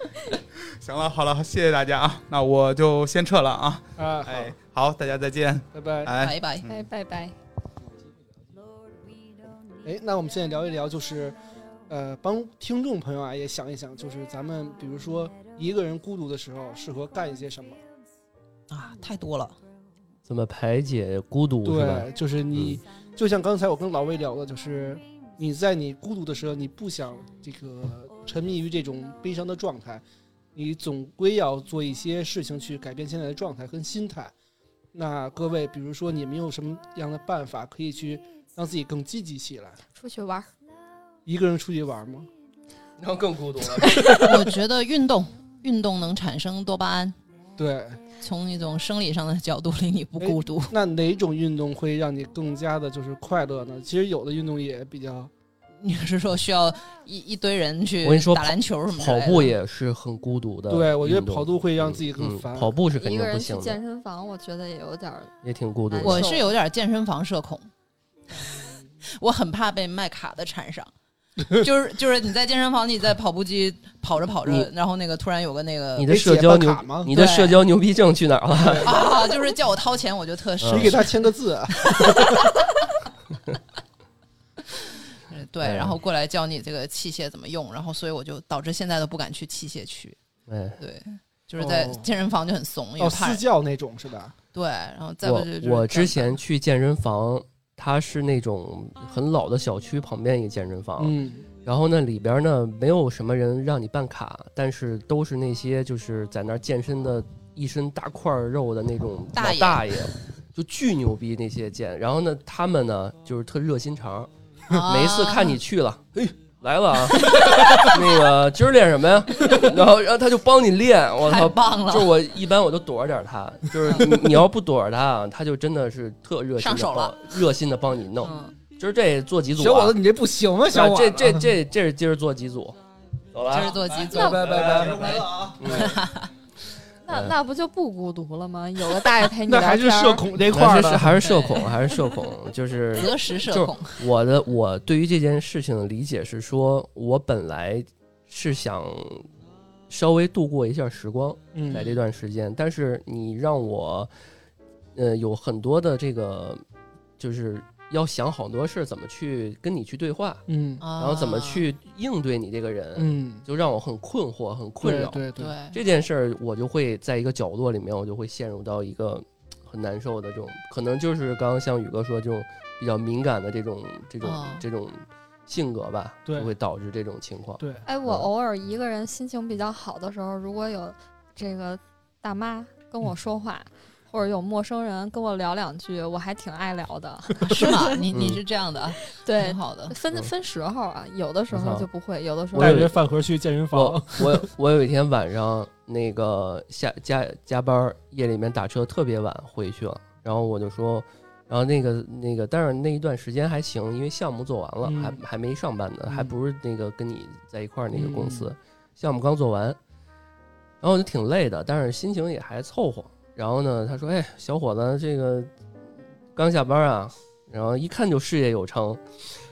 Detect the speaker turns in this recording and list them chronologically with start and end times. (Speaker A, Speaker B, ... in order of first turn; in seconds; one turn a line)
Speaker A: 0.8-6.8
Speaker B: 4.0-4.5
Speaker B: 5.7-6.1
Speaker C: 6.2-6.7
Speaker D: 6.6-7.3
Speaker B: 9.8-11.3
Speaker B: 11.9-17.8
Speaker C: 18.7-19.6
Speaker E: 20.2-22.8
Speaker B: 21.6-30.0
Speaker B: 30.5-34.3
Speaker B: 34.9-39.8
Speaker D: 39.9-40.5
Speaker B: 41.2-42.3
Speaker E: 43.0-44.1
Speaker D: 43.9-44.2
Speaker C: 44.2-47.1
Speaker B: 47.6-48.0
Speaker C: 48.2-50.7
Speaker B: 50.2-55.3
Speaker C: 55.8-59.5
Speaker E: 58.0-63.8
Speaker B: 60.7-62.7
Speaker D: 62.9-65.3
Speaker E: 65.4-66.3
Speaker D: 65.9-66.5
Speaker C: 66.0-67.7
Speaker C: 69.0-70.9
Speaker C: 71.5-76.1
Speaker E: 76.0-78.9
Speaker B: 76.1-77.1
Speaker C: 77.1-77.6
Speaker B: 78.6-79.0
Speaker C: 78.8-82.7
Speaker E: 80.6-81.0
Speaker B: 80.7-82.5
Speaker C: 84.7-90.2
Speaker E: 85.6-86.0
Speaker E: 90.5-90.8
Speaker C: 90.8-93.4
Speaker B: 91.6-92.1
Speaker B: 93.0-94.3
Speaker C: 94.5-96.4
Speaker E: 95.2-129.9
Speaker B: 101.0-101.5
Speaker C: 109.3-110.0
Speaker C: 114.7-115.6
Speaker C: 117.3-117.9
Speaker C: 121.2-122.1
Speaker C: 126.6-127.4
Speaker C: 128.2-128.5
Speaker B: 129.6-131.5
Speaker E: 130.7-132.8
Speaker E: 133.3-136.0
Speaker C: 133.5-136.3
Speaker A: 133.9-135.8
Speaker B: 134.1-135.1
Speaker D: 137.1-140.2
Speaker E: 137.1-137.3
Speaker B: 139.4-141.2
Speaker E: 140.5-149.3
Speaker C: 141.2-141.9
Speaker C: 142.9-144.0
Speaker E: 149.9-154.1
Speaker B: 151.5-151.9
Speaker E: 154.9-156.6
Speaker E: 157.2-160.4
Speaker B: 160.5-160.8
Speaker C: 160.8-161.7
Speaker E: 161.0-178.3
Speaker B: 162.9-163.4
Speaker B: 164.8-165.5
Speaker C: 165.4-165.8
Speaker C: 174.2-174.7
Speaker B: 176.2-176.5
Speaker D: 177.8-188.0
Speaker C: 187.5-189.9
Speaker E: 188.1-188.4
Speaker D: 189.2-192.9
Speaker E: 191.5-191.9
Speaker E: 192.5-192.9
Speaker B: 192.6-194.5
Speaker E: 193.7-209.8
Speaker B: 204.8-205.2
Speaker B: 206.1-206.3
Speaker B: 207.9-208.5
Speaker E: 210.8-215.5
Speaker E: 216.3-219.2